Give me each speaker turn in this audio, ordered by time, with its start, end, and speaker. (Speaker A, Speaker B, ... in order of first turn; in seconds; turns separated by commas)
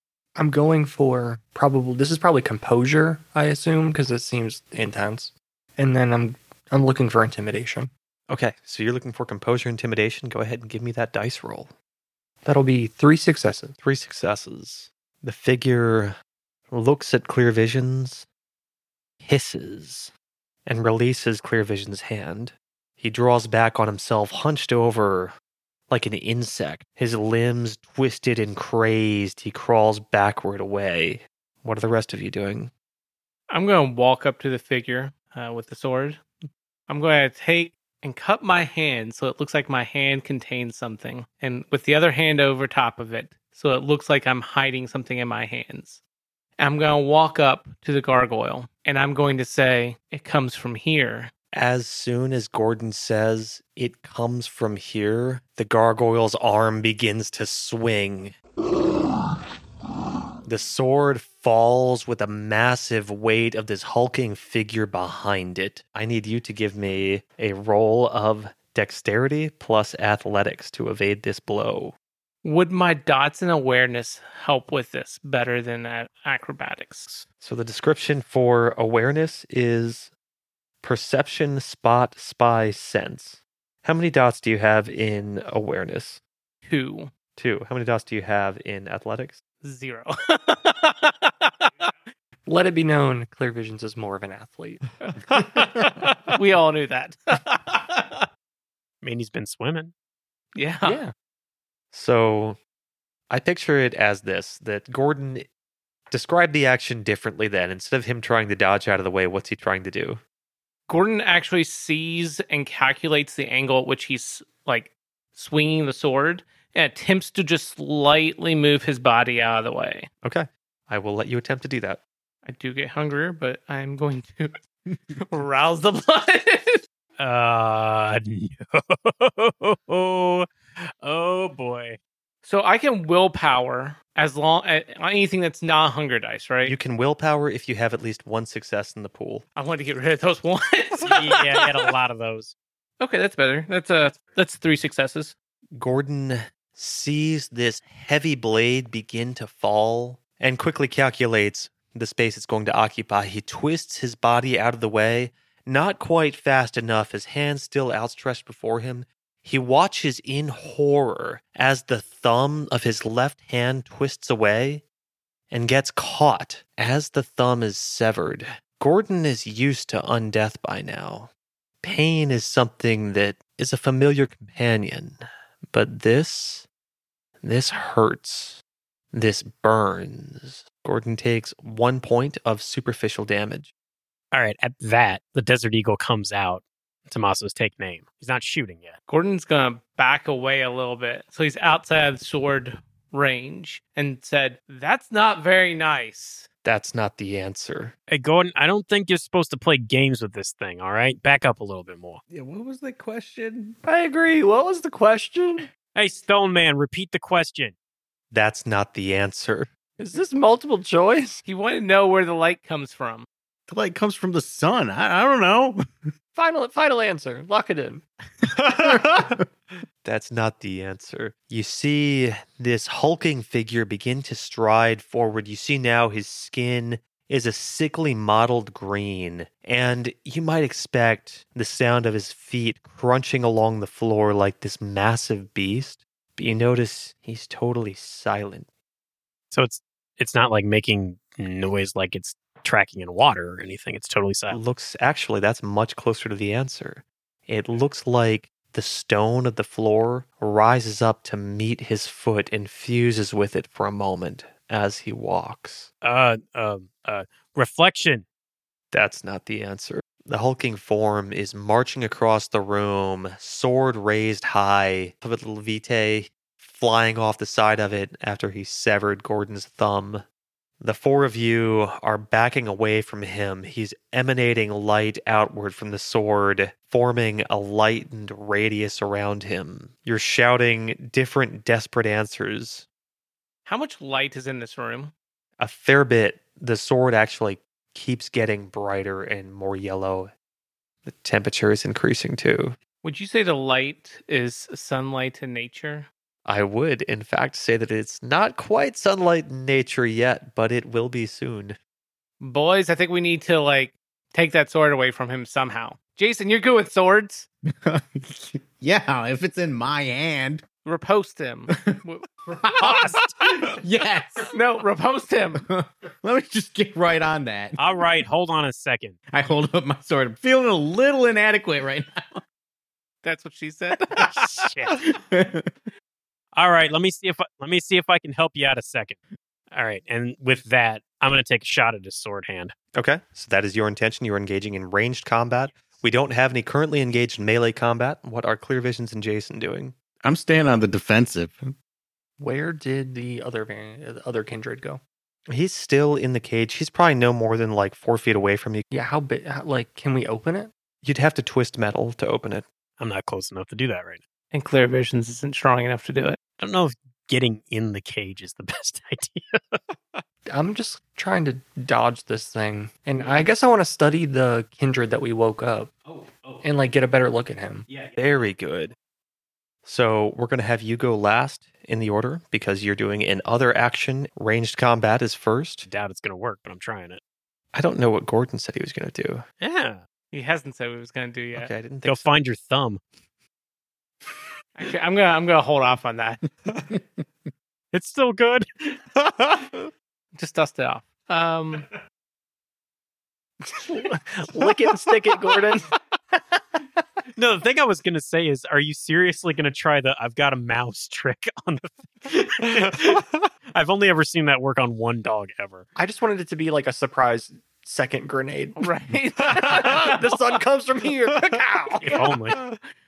Speaker A: 0.3-7.9, Speaker B: 8.3-11.7, Speaker A: 12.4-13.7, Speaker B: 13.8-16.1, Speaker B: 16.7-18.3, Speaker B: 19.2-20.1, Speaker B: 20.6-25.3, Speaker B: 25.9-32.7, Speaker C: 33.5-36.2, Speaker C: 36.9-46.0, Speaker C: 46.6-51.3, Speaker B: 51.5-58.4, Speaker B: 60.4-71.9, Speaker C: 72.4-77.2, Speaker B: 77.4-80.1, Speaker B: 80.8-86.2, Speaker C: 86.6-87.1, Speaker B: 87.3-89.4, Speaker C: 89.6-91.9, Speaker A: 92.5-94.8, Speaker C: 95.1-98.2, Speaker D: 99.0-99.9, Speaker C: 100.5-101.0, Speaker A: 100.8-101.1, Speaker B: 101.9-102.6, Speaker B: 103.3-105.5, Speaker B: 106.1-110.2, Speaker C: 110.9-120.1, Speaker B: 120.2-122.0, Speaker C: 122.5-124.6, Speaker C: 125.2-126.8, Speaker D: 127.2-130.5, Speaker D: 131.0-132.0, Speaker C: 132.4-136.8, Speaker B: 136.6-139.4, Speaker C: 139.6-141.9, Speaker D: 141.0-142.5, Speaker C: 143.0-145.3, Speaker B: 145.7-164.8, Speaker B: 165.5-171.3, Speaker B: 171.8-176.7, Speaker B: 177.4-178.6, Speaker B: 179.1-183.7, Speaker D: 184.3-189.0, Speaker C: 189.1-196.5, Speaker B: 196.6-197.9, Speaker D: 198.1-202.2, Speaker E: 202.3-203.8, Speaker A: 203.8-205.7, Speaker D: 205.9-207.7, Speaker B: 208.3-209.7, Speaker A: 210.0-211.4, Speaker C: 211.4-213.2, Speaker E: 213.7-215.8, Speaker A: 216.3-218.0, Speaker B: 218.6-219.4, Speaker E: 218.8-219.4, Speaker B: 220.0-238.7, Speaker D: 239.5-244.6, Speaker B: 244.5-255.9, Speaker D: 256.0-258.2, Speaker B: 258.9-270.2, Speaker B: 270.8-282.9, Speaker C: 283.6-285.1, Speaker B: 285.6-290.3, Speaker B: 291.1-292.8, Speaker C: 293.0-296.1, Speaker B: 296.4-301.8, Speaker C: 302.4-307.4, Speaker E: 307.8-310.6, Speaker C: 310.8-312.3, Speaker E: 312.4-314.5, Speaker C: 312.8-313.8, Speaker C: 314.5-315.6, Speaker E: 315.6-318.0, Speaker D: 317.8-319.1, Speaker E: 319.3-322.4, Speaker C: 323.2-324.7, Speaker D: 324.2-325.0, Speaker E: 324.9-325.7, Speaker D: 326.6-329.2, Speaker D: 329.7-332.7, Speaker B: 332.9-339.9, Speaker E: 340.2-341.7, Speaker A: 342.4-345.0, Speaker B: 345.5-348.9, Speaker A: 348.9-350.7, Speaker B: 351.0-352.6, Speaker D: 353.0-354.2, Speaker C: 354.5-356.4, Speaker D: 356.6-359.8, Speaker A: 360.5-365.9, Speaker D: 363.2-363.4, Speaker D: 366.1-366.6, Speaker A: 366.6-367.9, Speaker D: 367.9-368.2, Speaker B: 368.1-368.9, Speaker B: 369.8-375.9, Speaker D: 375.9-377.2, Speaker B: 377.7-379.4, Speaker D: 379.6-380.0, Speaker C: 380.3-381.7, Speaker B: 381.5-382.3, Speaker D: 382.0-383.0, Speaker C: 384.8-386.4, Speaker D: 387.9-388.7, Speaker C: 390.3-391.9, Speaker A: 393.7-395.9, Speaker D: 397.3-405.9, Speaker A: 405.9-408.8, Speaker C: 408.8-410.3, Speaker A: 409.5-412.2, Speaker D: 412.0-412.6